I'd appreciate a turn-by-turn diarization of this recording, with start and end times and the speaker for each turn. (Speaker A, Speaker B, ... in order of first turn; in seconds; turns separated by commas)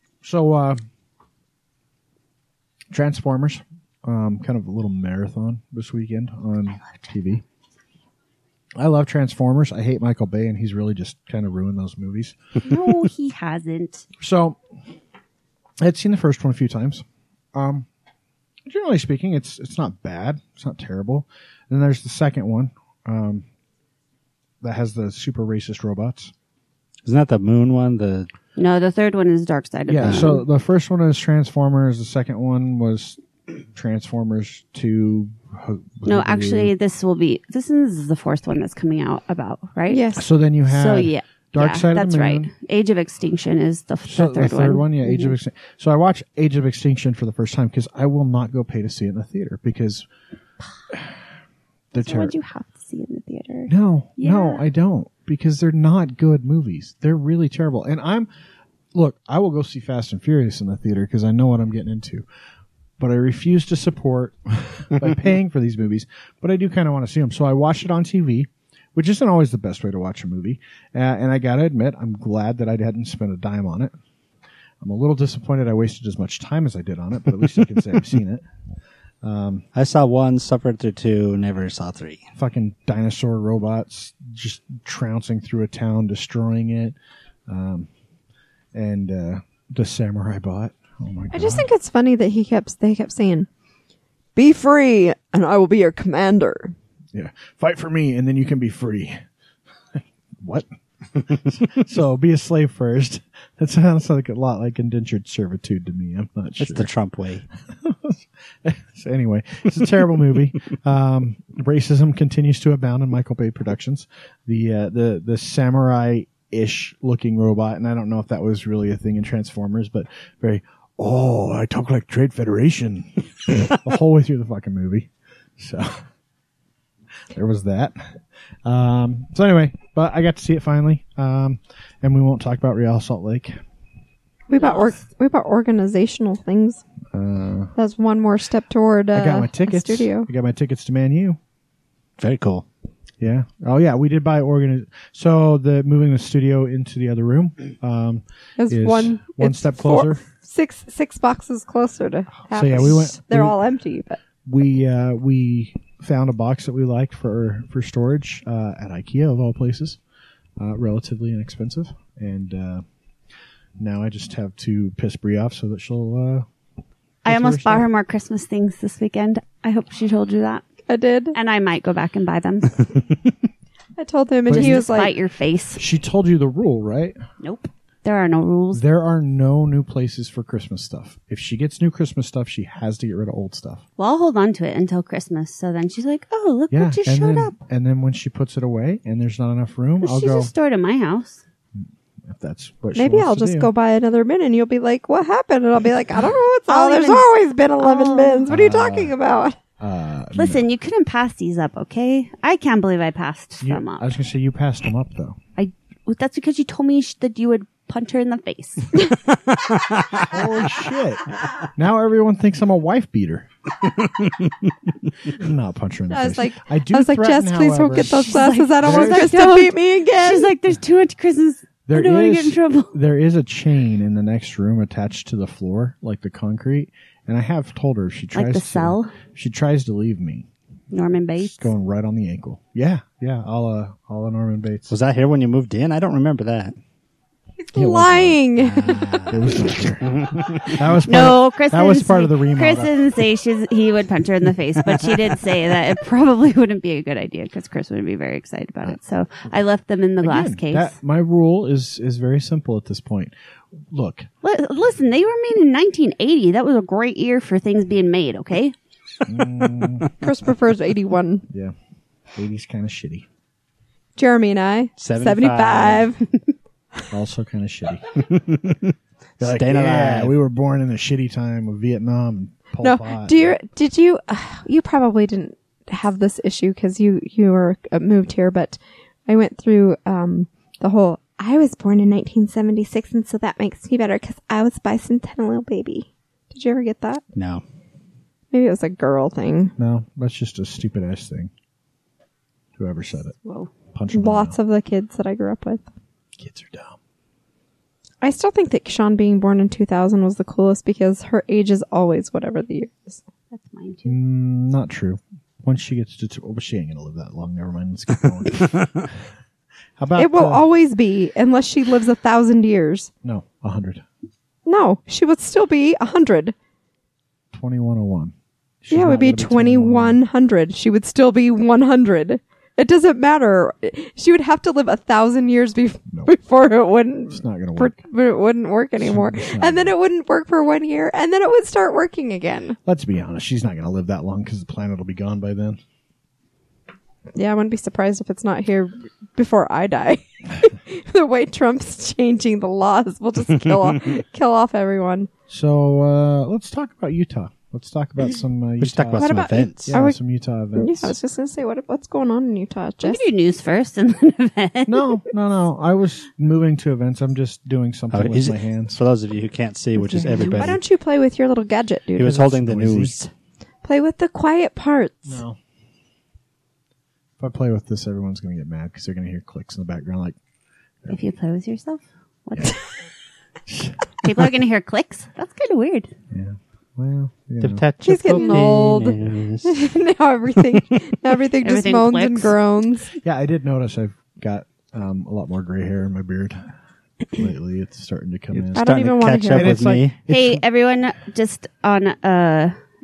Speaker A: 0.2-0.8, Speaker A: 2.9-7.4, Speaker A: 8.8-12.7, Speaker B: 12.6-14.1, Speaker A: 14.2-14.6, Speaker A: 15.8-17.9, Speaker A: 18.7-23.4, Speaker A: 24.6-26.3, Speaker C: 27.1-28.3, Speaker B: 28.6-30.4, Speaker A: 29.9-33.2, Speaker C: 30.0-30.3, Speaker A: 33.7-36.7, Speaker B: 36.0-40.0, Speaker D: 39.9-40.3, Speaker A: 40.2-42.5, Speaker B: 40.6-45.4, Speaker A: 44.0-50.1, Speaker A: 51.9-52.4, Speaker B: 52.0-54.6, Speaker A: 53.7-58.3, Speaker A: 58.9-62.2, Speaker A: 63.0-73.9, Speaker A: 74.8-78.5, Speaker A: 79.2-79.7, Speaker C: 79.8-82.2, Speaker A: 82.4-87.0, Speaker A: 87.5-87.9, Speaker A: 88.7-91.7, Speaker D: 91.3-93.5, Speaker D: 94.4-96.7, Speaker A: 97.1-99.2, Speaker A: 99.9-106.9, Speaker C: 106.6-107.5, Speaker A: 107.7-126.0, Speaker A: 127.3-133.6, Speaker D: 134.5-136.8, Speaker B: 134.6-134.9, Speaker A: 137.1-137.7, Speaker D: 137.8-140.3, Speaker A: 139.1-141.4, Speaker C: 142.2-142.7, Speaker A: 143.2-150.2, Speaker D: 148.6-154.2, Speaker A: 152.5-153.6, Speaker A: 154.4-160.0, Speaker A: 160.6-162.8, Speaker A: 163.8-166.5, Speaker A: 167.2-167.9, Speaker B: 167.2-170.7, Speaker D: 170.9-171.4, Speaker B: 171.3-172.8, Speaker D: 174.0-175.2, Speaker A: 174.5-174.9, Speaker B: 174.5-175.8, Speaker A: 175.8-177.2, Speaker B: 177.4-178.8, Speaker A: 178.7-183.8, Speaker B: 184.0-187.6, Speaker A: 186.7-190.5, Speaker B: 190.0-191.4, Speaker A: 191.8-193.7, Speaker D: 192.9-199.6, Speaker B: 196.7-198.5, Speaker A: 198.5-199.2, Speaker A: 199.8-200.7, Speaker B: 200.3-204.1, Speaker A: 203.6-205.4, Speaker B: 205.6-209.1, Speaker C: 209.5-210.3, Speaker A: 210.3-213.5, Speaker A: 215.3-219.4, Speaker D: 216.1-220.5, Speaker B: 218.0-222.9, Speaker A: 221.9-230.5, Speaker B: 228.3-229.2, Speaker B: 230.9-231.7, Speaker A: 231.5-234.9, Speaker C: 234.9-236.8, Speaker D: 237.6-239.2, Speaker A: 237.7-243.0, Speaker C: 238.7-239.4, Speaker C: 240.1-240.7, Speaker B: 241.0-250.9, Speaker A: 250.2-254.3, Speaker B: 254.4-258.7, Speaker A: 259.3-260.1, Speaker D: 260.2-261.5, Speaker A: 261.5-261.8, Speaker A: 262.4-263.3, Speaker D: 264.2-266.3, Speaker C: 265.0-266.1, Speaker A: 267.1-268.3, Speaker C: 268.2-270.4, Speaker A: 269.4-273.5, Speaker D: 272.8-287.2, Speaker C: 287.4-287.6, Speaker D: 288.5-289.8, Speaker A: 289.8-291.5, Speaker A: 292.8-293.4, Speaker B: 293.4-293.7, Speaker A: 293.9-294.6, Speaker D: 294.1-295.9, Speaker A: 296.4-297.0, Speaker D: 298.2-303.2, Speaker B: 303.5-304.2, Speaker A: 304.1-309.2, Speaker A: 310.0-310.7, Speaker D: 310.2-313.1, Speaker A: 313.2-314.1, Speaker D: 314.7-316.6, Speaker A: 317.5-320.2, Speaker D: 318.9-332.8, Speaker A: 327.3-328.0, Speaker A: 329.0-329.9, Speaker A: 332.9-335.8, Speaker D: 337.4-345.3, Speaker A: 345.5-351.1, Speaker C: 348.8-349.9, Speaker D: 349.2-350.2, Speaker D: 350.8-353.2, Speaker B: 353.0-355.2, Speaker A: 354.9-359.0, Speaker C: 358.1-360.8, Speaker B: 360.1-360.6, Speaker D: 360.5-362.5, Speaker C: 362.2-363.3, Speaker A: 362.3-363.2, Speaker D: 363.8-365.4, Speaker A: 365.3-365.6, Speaker A: 367.4-370.4, Speaker B: 371.1-372.8, Speaker A: 373.7-374.3, Speaker B: 374.2-376.1, Speaker A: 376.3-377.9, Speaker C: 377.6-379.8, Speaker D: 378.0-383.1, Speaker B: 381.6-382.6, Speaker A: 383.2-386.7, Speaker A: 387.3-388.9, Speaker C: 388.5-390.2, Speaker D: 388.8-389.8, Speaker A: 389.4-390.6, Speaker B: 390.3-392.8